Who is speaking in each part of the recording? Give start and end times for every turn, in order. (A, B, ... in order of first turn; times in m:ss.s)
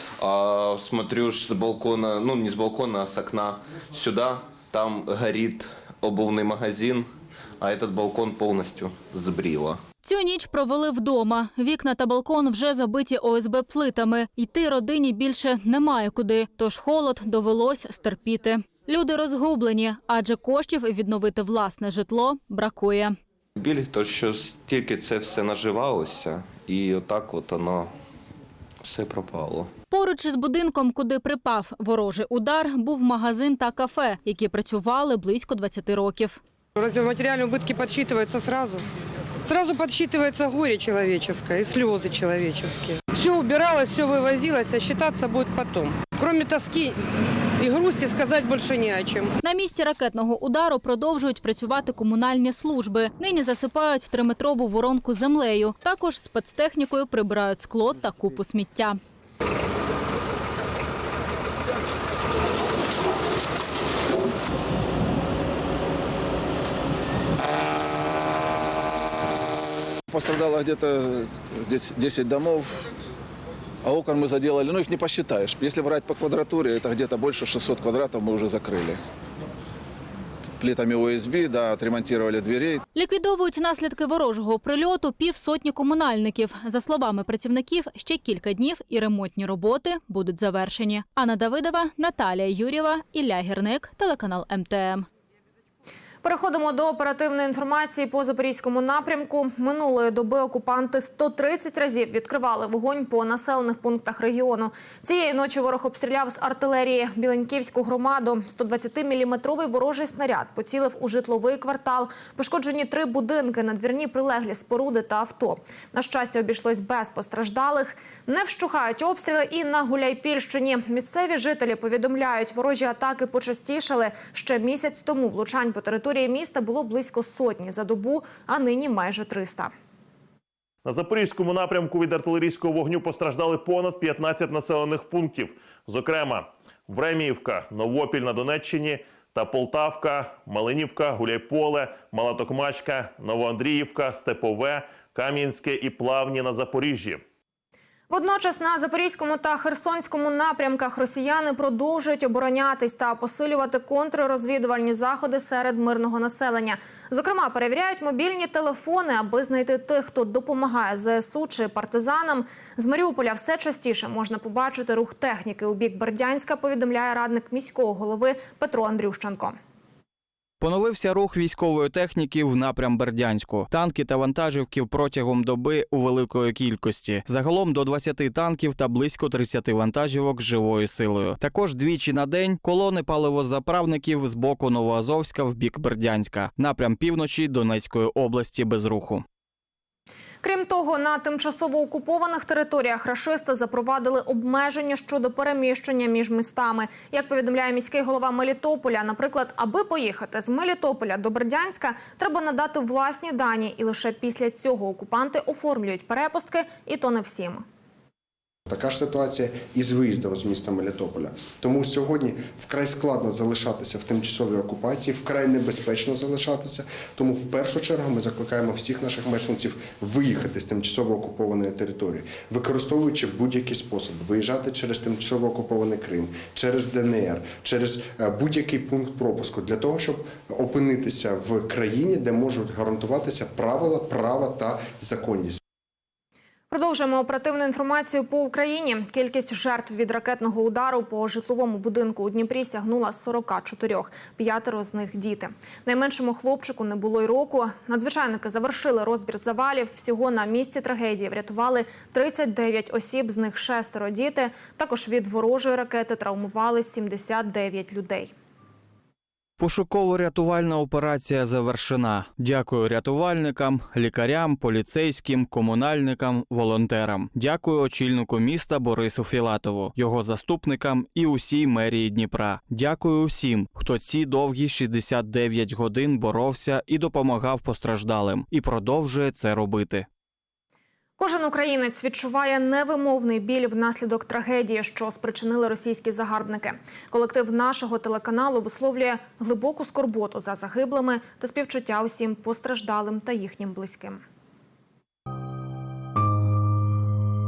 0:00.2-0:09.8 A
0:10.0-0:23.2 B
0:23.6-0:27.9 A
0:28.8-0:29.7 A
0:29.9-0:36.4 B
0:36.8-0:38.8 C
0:39.4-0:47.0 C
0:47.6-0:49.3 C
0:49.4-0:59.0 B
1:10.1-1:12.8 D
1:13.8-1:19.0 D
1:20.6-1:22.8 D
1:22.9-1:35.1 B
1:36.2-2:09.7 E
2:10.8-2:27.2 F
2:28.1-2:49.6 E
2:50.6-3:09.2 G
3:10.4-3:27.6 E
3:28.7-3:55.6 H
3:56.7-4:18.3 E
4:19.6-4:40.1 G
4:41.2-4:54.2 E